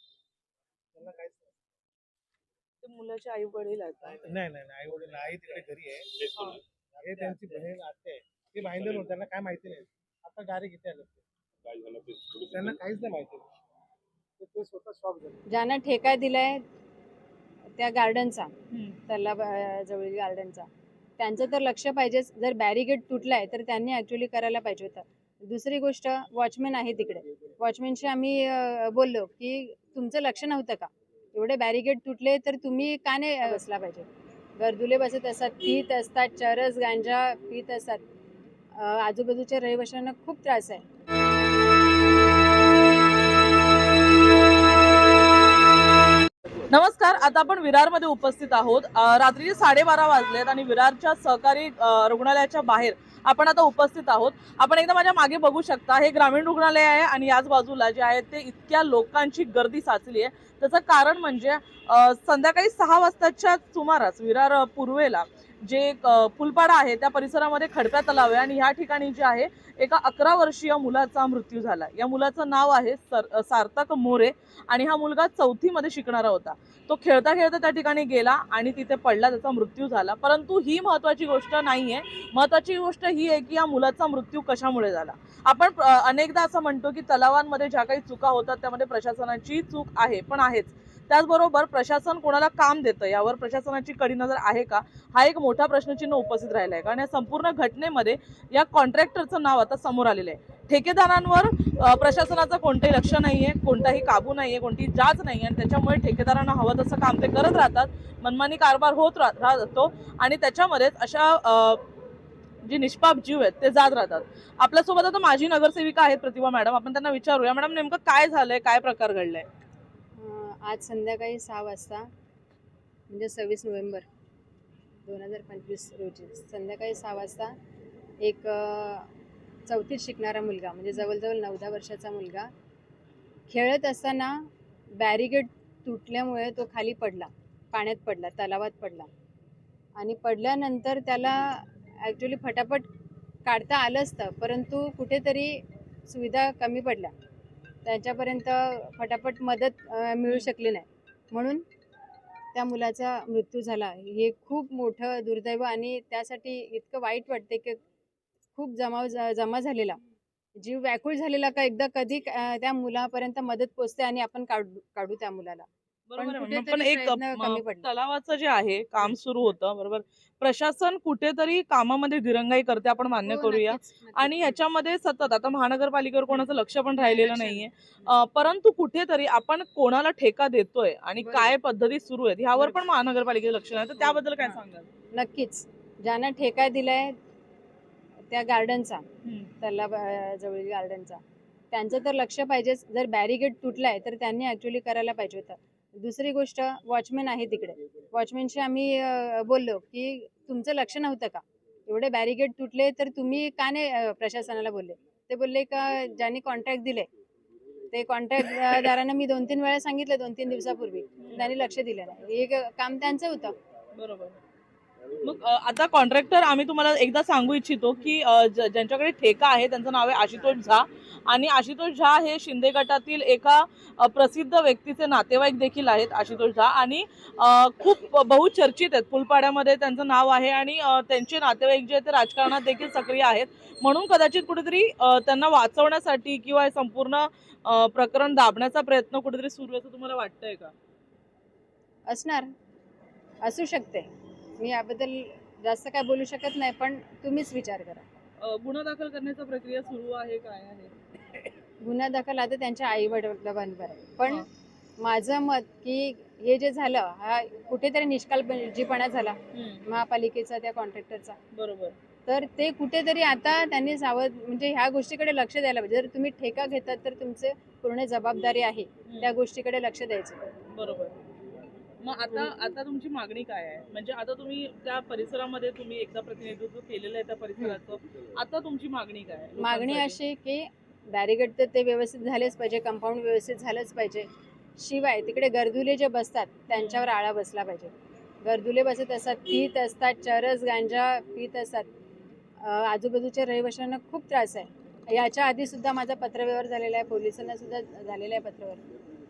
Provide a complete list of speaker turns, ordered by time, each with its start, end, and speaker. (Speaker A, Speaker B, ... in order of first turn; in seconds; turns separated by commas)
Speaker A: 0.9-1.6, Speaker B: 2.8-4.2, Speaker A: 4.1-6.4, Speaker A: 6.9-13.5, Speaker A: 14.4-15.4, Speaker C: 15.5-16.6, Speaker C: 17.8-18.5, Speaker B: 18.7-19.0, Speaker C: 19.1-20.7, Speaker C: 21.2-34.1, Speaker C: 34.6-38.0, Speaker C: 38.8-40.8, Speaker B: 46.7-111.8, Speaker B: 112.6-119.5, Speaker C: 120.2-122.1, Speaker C: 123.1-124.0, Speaker C: 125.0-127.5, Speaker C: 128.2-129.1, Speaker C: 129.7-132.5, Speaker C: 133.5-139.1, Speaker C: 140.0-142.9, Speaker C: 143.5-147.1, Speaker C: 147.8-151.6, Speaker C: 152.6-157.8, Speaker C: 158.6-160.0, Speaker C: 160.6-165.7, Speaker B: 166.1-184.9, Speaker C: 166.2-167.9, Speaker C: 173.2-174.6, Speaker C: 176.9-178.1, Speaker C: 181.2-181.6, Speaker C: 182.6-182.8, Speaker C: 184.0-184.6, Speaker C: 185.1-187.2, Speaker C: 188.3-189.0, Speaker B: 189.2-189.5, Speaker C: 189.6-191.2, Speaker C: 191.7-207.1, Speaker C: 207.9-213.6, Speaker B: 211.2-211.5, Speaker B: 213.9-214.4, Speaker B: 215.2-240.7, Speaker C: 242.1-242.5, Speaker C: 243.4-248.1, Speaker B: 248.4-250.9, Speaker C: 251.8-254.5, Speaker C: 255.0-261.4, Speaker B: 259.5-259.9, Speaker B: 261.5-261.9, Speaker C: 262.3-270.5, Speaker B: 269.1-269.3, Speaker B: 270.7-271.1, Speaker B: 272.0-280.2, Speaker C: 279.6-284.3, Speaker C: 284.8-287.9, Speaker B: 286.7-287.1, Speaker C: 288.4-291.9, Speaker C: 292.6-298.8